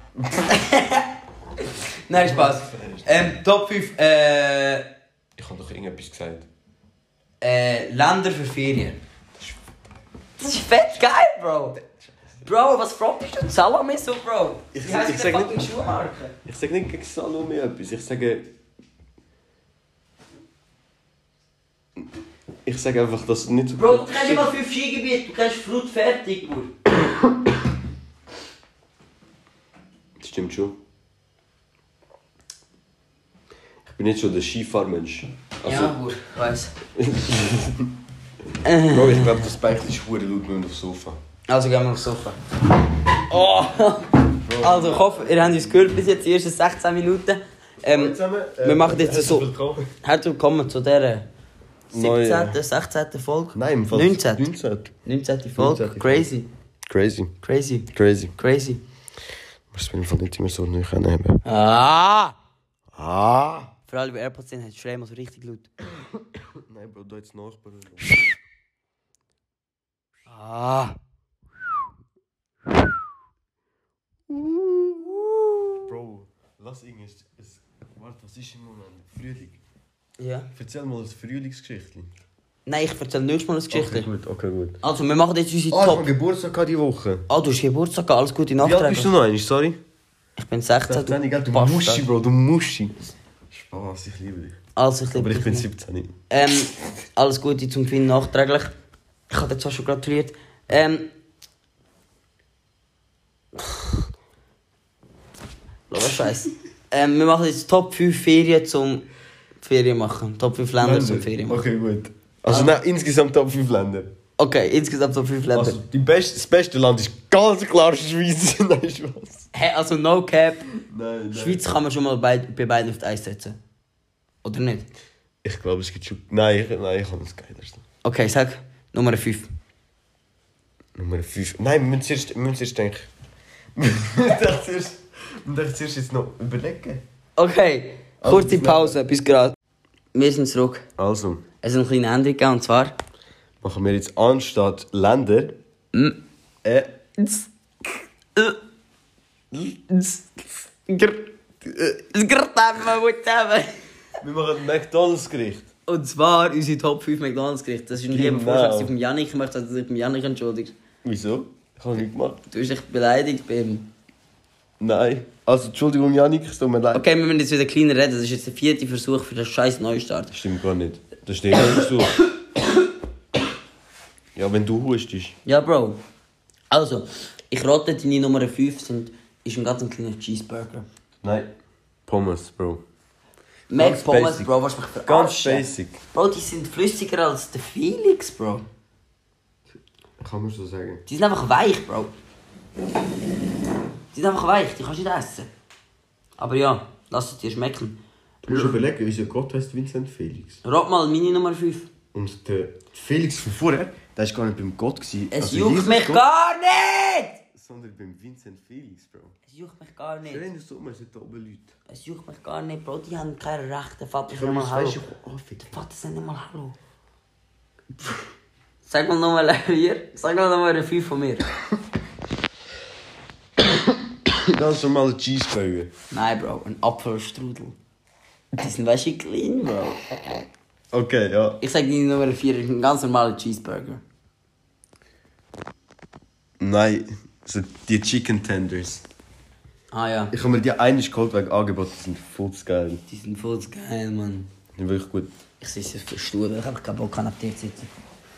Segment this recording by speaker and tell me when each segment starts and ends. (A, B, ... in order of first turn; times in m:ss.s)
0:00.5-0:01.1 A
0:01.6-0:04.9 A
0:02.2-0:03.3 B
0:05.4-0:06.5 B
0:07.4-0:09.0 A
0:10.4-0:11.8 A
0:12.0-0:12.4 B
0:12.4-0:16.3 A
0:14.7-0:15.6 B
0:16.4-0:18.5 B
0:22.6-0:24.5 B
0:23.7-0:26.7 A
0:30.2-0:30.8 B
0:33.8-0:36.0 B
0:35.6-0:36.7 A
0:36.9-0:37.9 B
0:38.6-0:39.4 A
0:38.9-0:41.2 B
0:41.5-0:42.4 A
0:43.3-0:49.5 A
0:44.4-0:45.9 B
0:47.9-0:49.9 B
0:50.0-0:51.3 A
0:51.9-0:52.6 B
0:51.9-0:54.5 A
0:53.5-0:54.9 B
0:55.0-0:56.5 A
0:55.6-0:56.3 B
0:56.9-0:57.3 B
0:57.4-0:58.8 A
0:57.9-0:58.4 B
0:59.7-1:01.4 B
1:01.4-1:02.3 A
1:02.9-1:03.7 B
1:03.9-1:05.7 A
1:06.4-1:08.2 B
1:10.3-1:11.0 A
1:14.3-1:15.1 B
1:15.3-1:15.6 A
1:15.8-1:19.6 B
1:20.2-1:20.5 A
1:20.5-1:22.1 B
1:22.6-1:24.1 A
1:23.7-1:24.8 B
1:24.8-1:26.1 A
1:25.7-1:27.3 B
1:27.3-1:29.1 A
1:28.6-1:29.8 B
1:30.4-1:32.0 A
1:30.8-1:34.6 B
1:34.8-1:35.7 A
1:35.1-1:36.1 B
1:36.3-1:38.7 A
1:39.3-1:41.1 A
1:45.9-1:49.0 A
1:49.6-1:51.6 A
1:50.8-1:54.1 B
1:54.4-1:55.8 A
1:55.5-1:59.5 B
1:59.5-2:00.8 A
2:00.9-2:01.7 B
2:01.3-2:03.6 A
2:04.4-2:04.9 A
2:05.4-2:07.8 B
2:08.0-2:09.5 A
2:11.0-2:13.1 B
2:13.7-2:17.0 B
2:17.4-2:19.6 A
2:18.2-2:19.0 B
2:20.1-2:20.8 A
2:21.0-2:21.4 B
2:21.6-2:23.0 A
2:23.6-2:25.6 B
2:25.9-2:26.2 A
2:26.6-2:27.0 B
2:27.2-2:27.5 A
2:29.5-2:31.3 A
2:31.6-2:32.0 B
2:32.1-2:33.7 A
2:34.2-2:35.7 B
2:35.9-2:40.7 A
2:37.9-2:38.9 B
2:41.0-2:42.4 B
2:42.5-2:43.9 A
2:44.8-2:47.0 B
2:46.9-2:50.3 A
2:50.3-2:52.2 B
2:54.3-2:55.4 B
2:55.4-2:56.0 A
2:56.7-3:00.8 A
3:01.2-3:01.5 B
3:02.1-3:02.8 B
3:03.7-3:08.6 A
3:03.8-3:04.5 B
3:05.0-3:06.0 B
3:10.2-3:11.0 B
3:11.1-3:12.1 A
3:14.1-3:15.5 A
3:16.4-3:18.8 A
3:18.4-3:20.6 B
3:20.6-3:21.9 A
3:22.1-3:26.2 B
3:25.3-3:27.4 A
3:27.5-3:29.4 B
3:29.4-3:30.4 A
3:30.3-3:31.7 B
3:31.9-3:35.0 A
3:34.3-3:35.8 B
3:35.6-3:36.8 A
3:38.8-3:41.5 A
3:44.2-3:45.9 B
3:46.1-3:47.8 A
3:48.6-3:50.0 A
3:50.9-3:51.6 B
3:51.6-3:54.0 A
3:56.6-3:59.0 B
3:59.9-4:00.3 A
4:00.3-4:03.0 B
4:03.1-4:04.5 A
4:04.7-4:05.3 B
4:05.6-4:07.9 A